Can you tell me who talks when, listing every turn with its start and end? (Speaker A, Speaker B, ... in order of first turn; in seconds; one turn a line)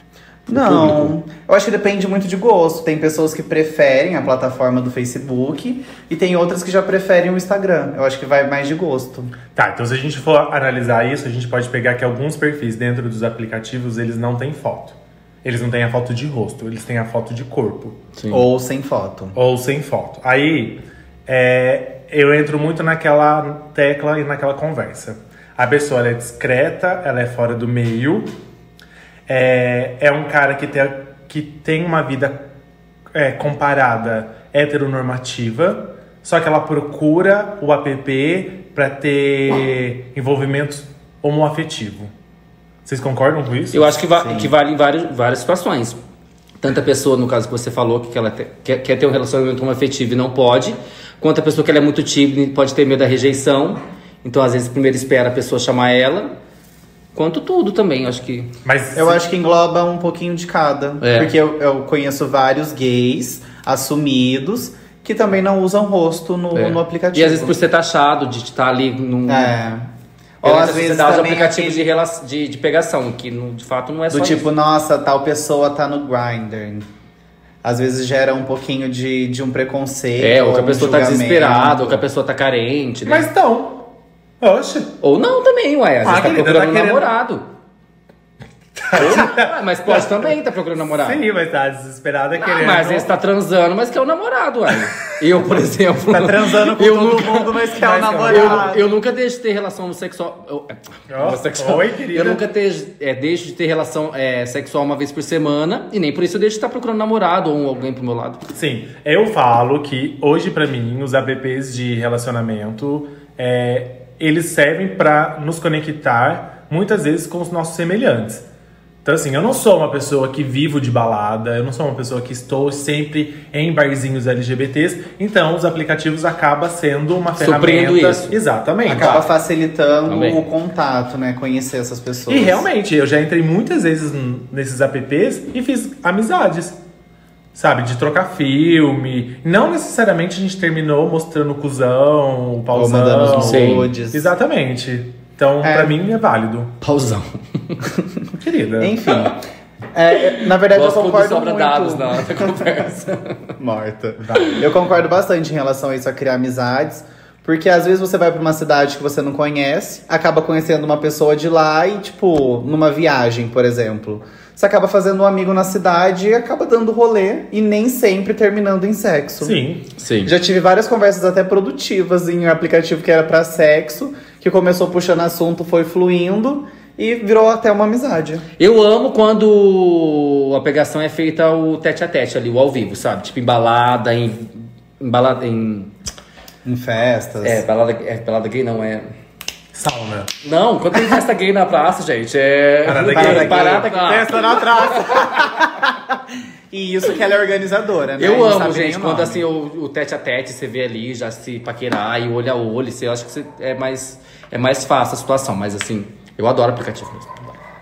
Speaker A: 0.5-9.3
Speaker B: 0.5-1.1
Speaker C: 9.5-18.0
Speaker B: 18.2-18.4
Speaker A: 18.3-19.3
Speaker C: 19.3-28.3
Speaker C: 29.3-32.4
Speaker C: 33.1-42.1
Speaker C: 42.8-44.0
Speaker B: 43.7-46.0
Speaker A: 44.1-44.5
Speaker B: 46.6-56.3
Speaker B: 57.1-58.5
Speaker C: 58.6-59.2
Speaker A: 58.9-67.5
Speaker B: 61.0-61.3
Speaker B: 66.5-69.5
Speaker A: 69.3-69.9
Speaker A: 70.4-71.9
Speaker B: 70.4-74.5
Speaker A: 74.1-76.9
Speaker A: 77.6-82.0
Speaker B: 80.2-83.3
Speaker C: 83.0-83.9
Speaker C: 84.4-84.9
Speaker B: 85.0-87.5
Speaker C: 86.0-87.1
Speaker C: 88.8-90.3
Speaker B: 88.9-91.2
Speaker C: 90.9-93.1
Speaker B: 92.4-97.5
Speaker C: 96.1-98.8
Speaker A: 96.4-98.8
Speaker B: 98.3-108.4
Speaker C: 101.1-102.4
Speaker C: 108.5-118.4
Speaker C: 119.0-129.2
Speaker B: 127.4-128.4
Speaker A: 128.8-132.7
Speaker B: 128.9-129.2
Speaker B: 130.1-130.4
Speaker C: 132.3-136.8
Speaker C: 137.5-146.7
Speaker A: 142.7-144.3
Speaker B: 143.3-143.9
Speaker A: 145.6-145.9
Speaker B: 146.8-147.8
Speaker C: 148.3-149.0
Speaker A: 148.8-152.9
Speaker B: 150.7-153.5
Speaker A: 153.6-169.6
Speaker C: 154.3-154.6
Speaker C: 169.4-169.9
Speaker B: 170.0-170.3
Speaker A: 170.2-178.4
Speaker B: 178.6-185.9
Speaker A: 186.6-187.6
Speaker B: 187.4-189.1
Speaker C: 189.7-190.3
Speaker B: 190.4-195.5
Speaker C: 192.8-194.9
Speaker A: 193.1-199.4
Speaker B: 198.2-207.6